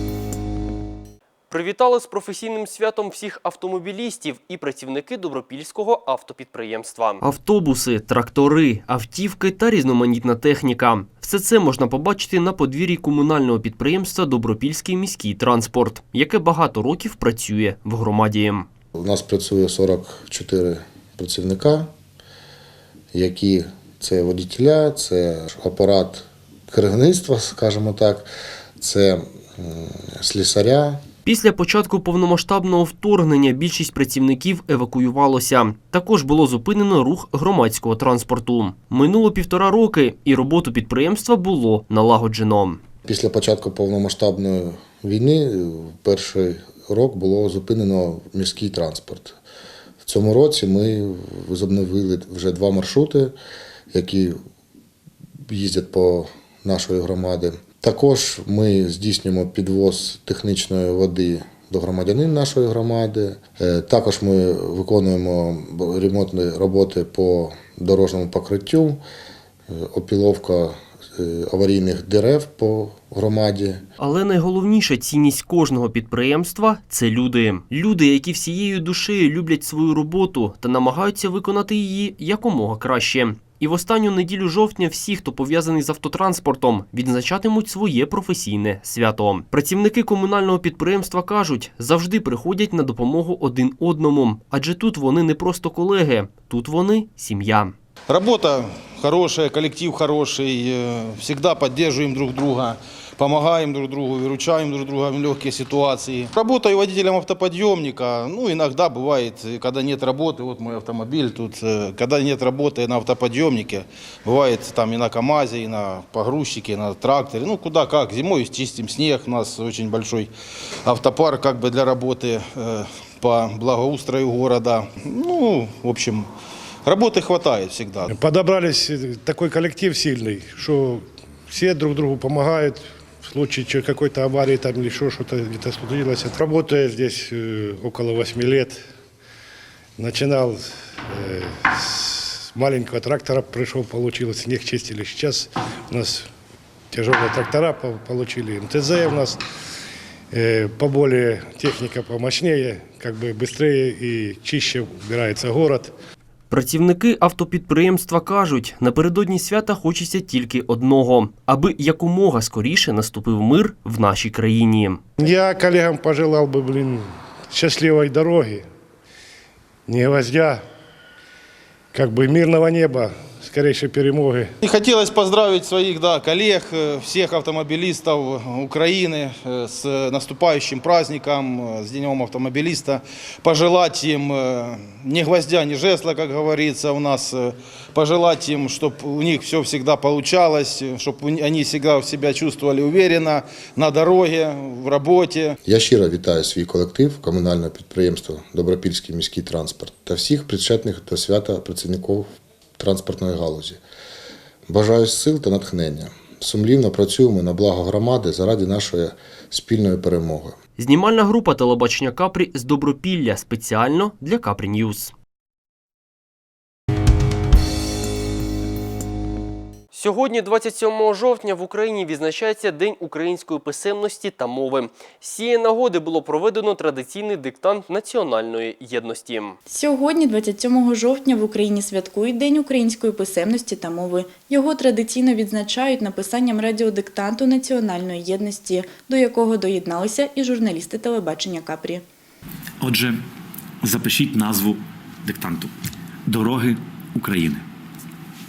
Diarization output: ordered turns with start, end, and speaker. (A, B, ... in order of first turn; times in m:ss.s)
0:01.5-0:18.7 A
0:18.9-0:21.9 B
0:23.1-0:31.0 B
0:31.2-0:42.8 A
0:43.0-0:49.4 B
0:50.0-0:53.3 B
0:53.9-0:54.4 B
0:55.5-1:09.0 B
1:09.7-1:13.8 B
1:14.0-1:37.7 A
1:38.1-2:00.3 C
2:00.8-2:06.3 C
2:06.8-2:08.1 C
2:08.1-2:18.8 D
2:20.0-2:26.3 D
2:26.9-2:29.4 D
2:30.3-2:35.9 D
2:36.5-2:45.1 A
2:45.2-2:48.6 D
2:49.9-2:50.6 D
2:51.9-2:54.5 D
2:54.6-3:15.6 C
3:15.6-3:22.3 B
3:22.8-3:23.8 B
3:24.7-3:30.6 B
3:30.8-3:35.1 A
3:39.9-3:49.6 A
3:49.7-4:02.0 E
4:02.8-4:03.2 F
4:03.8-4:05.7 F
4:06.3-4:07.6 F